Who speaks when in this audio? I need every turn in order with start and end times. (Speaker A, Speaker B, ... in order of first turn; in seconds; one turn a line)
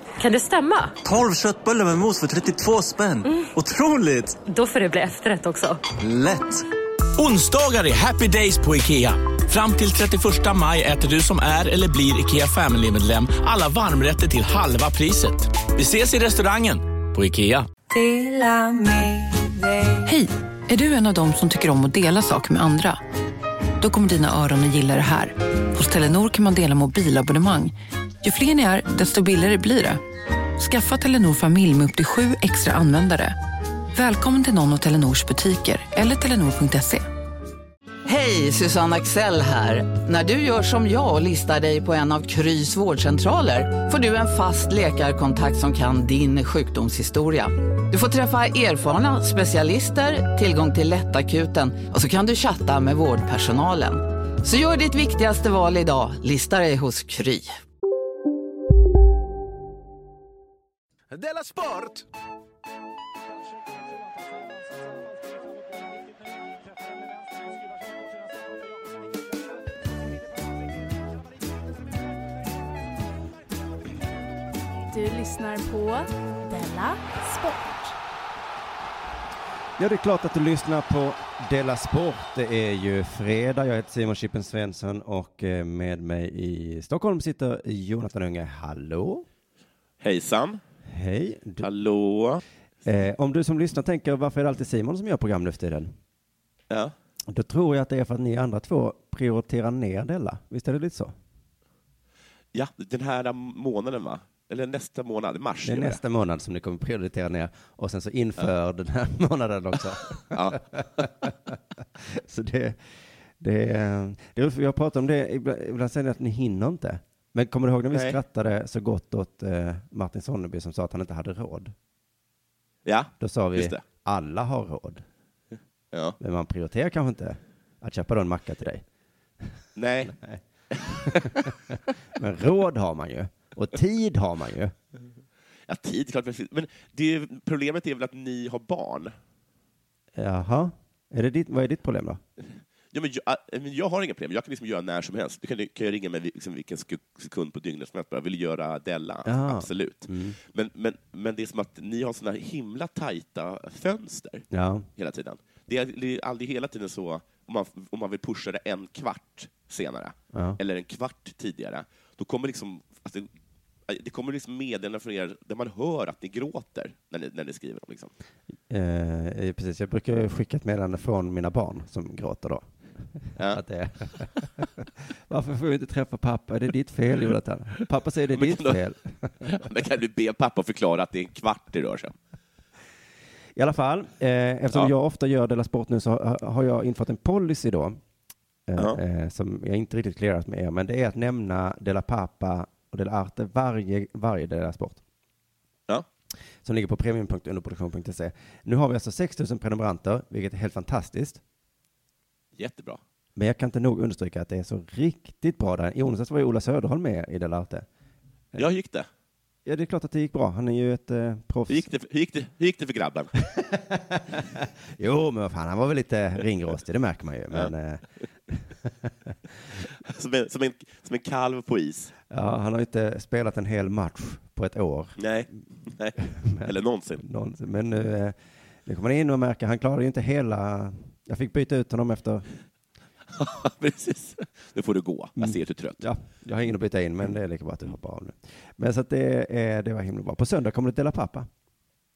Speaker A: 0.2-1.0
Speaker B: 1.0-4.4
Speaker A: 4.5-5.8
Speaker B: 6.0-6.7
Speaker C: 7.2-17.7
Speaker D: 20.1-23.0
Speaker D: 23.8-30.0
Speaker D: 30.6-33.4
Speaker D: 34.0-37.1
Speaker E: 38.1-57.5
Speaker B: 61.1-62.0
Speaker F: 74.9-78.0
Speaker G: 79.8-89.3
Speaker H: 90.0-90.6
Speaker G: 90.9-91.7
Speaker H: 91.6-92.4
Speaker G: 92.8-96.0
Speaker G: 97.3-101.2
Speaker H: 102.5-106.0
Speaker G: 105.6-121.7
Speaker H: 110.3-110.6
Speaker H: 117.9-118.2
Speaker H: 122.9-123.8
Speaker G: 123.2-125.0
Speaker H: 125.9-126.2
Speaker G: 126.2-128.8
Speaker H: 129.8-130.2
Speaker G: 130.1-130.4
Speaker H: 130.7-131.3
Speaker G: 131.1-131.5
Speaker G: 132.2-134.7
Speaker H: 135.7-139.2
Speaker G: 140.2-142.2
Speaker H: 142.4-154.4
Speaker G: 149.3-150.4
Speaker G: 154.5-154.9
Speaker H: 155.0-163.3
Speaker G: 160.3-160.6
Speaker H: 163.9-168.1
Speaker G: 168.7-172.7
Speaker G: 173.2-179.6
Speaker H: 173.4-173.6
Speaker H: 178.3-178.8
Speaker H: 179.4-182.2
Speaker G: 183.6-188.0
Speaker G: 188.7-195.0
Speaker G: 196.6-201.4
Speaker H: 202.6-203.0
Speaker G: 203.4-207.9
Speaker H: 208.6-209.1
Speaker G: 209.7-211.9
Speaker H: 211.7-213.3
Speaker G: 213.5-219.3
Speaker H: 220.0-222.1
Speaker G: 222.3-225.2
Speaker H: 225.2-227.2
Speaker G: 226.2-232.4
Speaker H: 233.3-236.1
Speaker G: 235.4-241.5